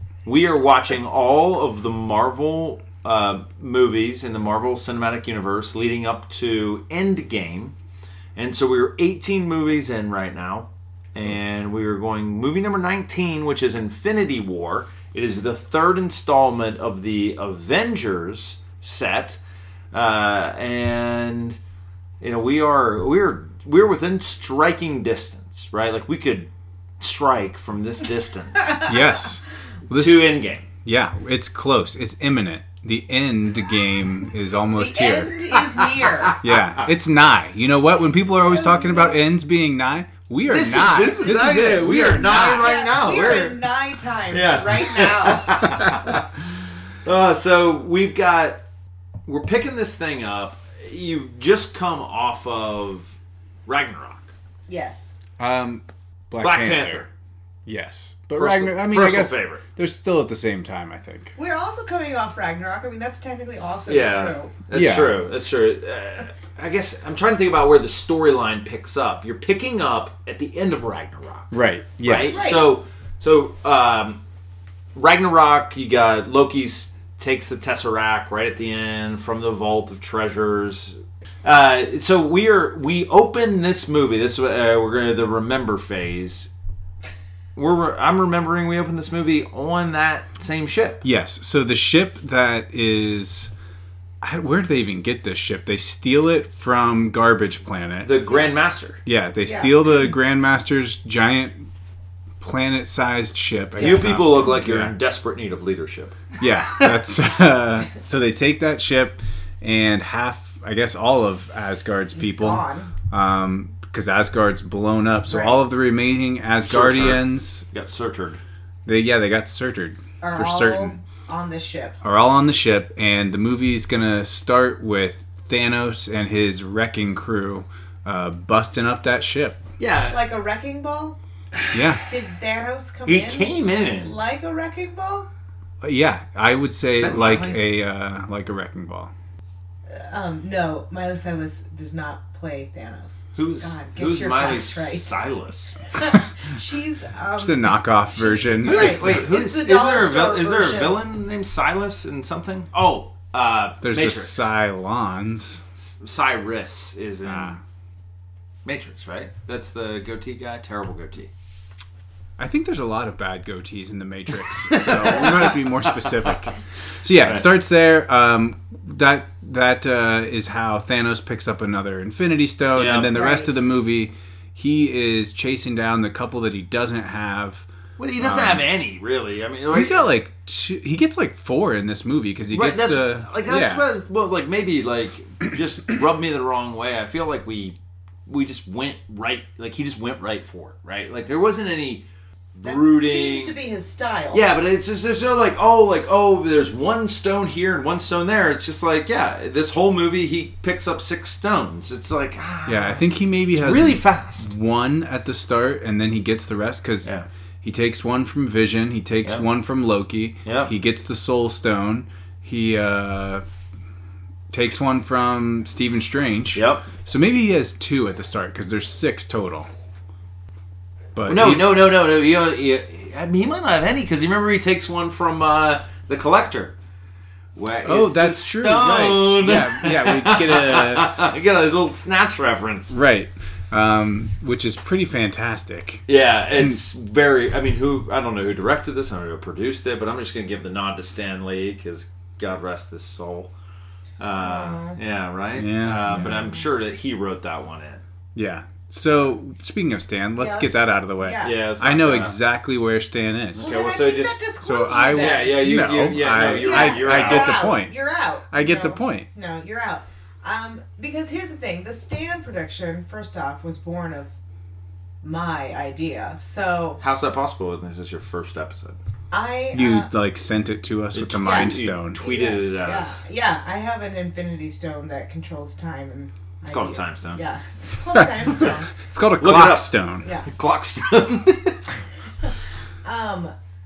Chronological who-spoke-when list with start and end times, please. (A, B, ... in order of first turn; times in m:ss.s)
0:00.2-0:07.7 A
0:08.4-0:19.4 A
0:19.9-0:21.6 A
0:22.2-0:28.8 A
0:28.8-0:35.4 B
0:29.9-0:30.6 A
0:34.8-0:36.3 C
0:36.1-0:36.8 A
0:36.4-0:42.8 B
0:38.4-0:39.2 C
0:40.5-0:43.6 A
0:41.2-0:41.6 C
0:42.5-0:45.8 C
0:44.3-0:46.2 A
0:47.0-0:48.6 A
0:49.3-0:53.1 A
0:53.6-0:54.3 A
0:54.7-0:55.1 C
0:55.4-0:57.1 B
0:56.4-0:57.1 A
0:57.6-1:01.3 B
0:58.4-0:59.6 A
1:01.4-1:04.5 C
1:03.9-1:14.2 A
1:04.7-1:05.2 B
1:11.5-1:12.5 B
1:12.3-1:12.8 C
1:14.9-1:26.5 A
1:27.6-1:31.0 A
1:31.0-1:33.5 B
1:34.2-1:38.2 B
1:38.0-1:39.0 A
1:39.0-1:41.7 B
1:39.4-1:40.1 C
1:42.4-1:44.9 B
1:43.8-1:46.2 A
1:43.8-1:44.1 C
1:46.4-1:57.6 B
1:52.1-1:52.9 C
1:55.3-1:55.5 C
1:56.6-1:58.4 A
1:58.8-2:00.9 B
2:00.2-2:02.0 C
2:02.0-2:09.6 B
2:09.8-2:10.2 A
2:10.1-2:11.2 C
2:11.7-2:12.0 B
2:12.1-2:15.3 C
2:13.0-2:14.2 A
2:15.8-2:19.1 B
2:17.0-2:17.6 A
2:19.9-2:25.1 C
2:23.3-2:25.8 A
2:25.9-2:31.0 C
2:27.4-2:29.2 B
2:28.6-2:34.5 A
2:33.8-2:35.6 B
2:35.8-2:37.6 A
2:37.2-2:37.6 B
2:38.6-2:41.3 A
2:42.4-2:57.7 B
2:44.7-2:46.5 A
2:52.7-2:53.2 A
2:53.1-2:53.5 C
2:58.0-3:00.1 A
2:58.2-2:58.6 B
2:59.7-3:03.8 B
3:02.5-3:07.8 A
3:08.3-3:12.0 A
3:12.6-3:13.6 A
3:12.6-3:14.4 C
3:14.3-3:24.5 A
3:22.6-3:27.1 B
3:27.6-3:33.4 B
3:30.4-3:30.7 A
3:34.5-3:39.7 B
3:36.5-3:36.9 A
3:41.1-3:41.8 B
3:41.3-3:46.7 A
3:47.6-3:52.9 A
3:47.8-3:51.1 B
3:52.9-3:56.8 B
3:56.1-4:03.5 A
4:04.2-4:08.0 A
4:04.4-4:05.0 C
4:05.5-4:06.6 B
4:08.3-4:13.8 B
4:10.4-4:11.6 C
4:11.4-4:12.4 A
4:13.5-4:14.4 A
4:13.6-4:15.6 C
4:14.6-4:17.9 B
4:15.0-4:17.7 A
4:16.6-4:24.3 C
4:18.5-4:19.3 B
4:25.2-4:27.0 C
4:27.0-4:29.0 A
4:29.3-4:30.1 C
4:29.7-4:32.2 B
4:31.1-4:33.2 A
4:31.4-4:38.9 C
4:36.7-4:37.4 A
4:39.0-4:40.3 B
4:39.4-4:41.8 A
4:43.0-4:43.5 C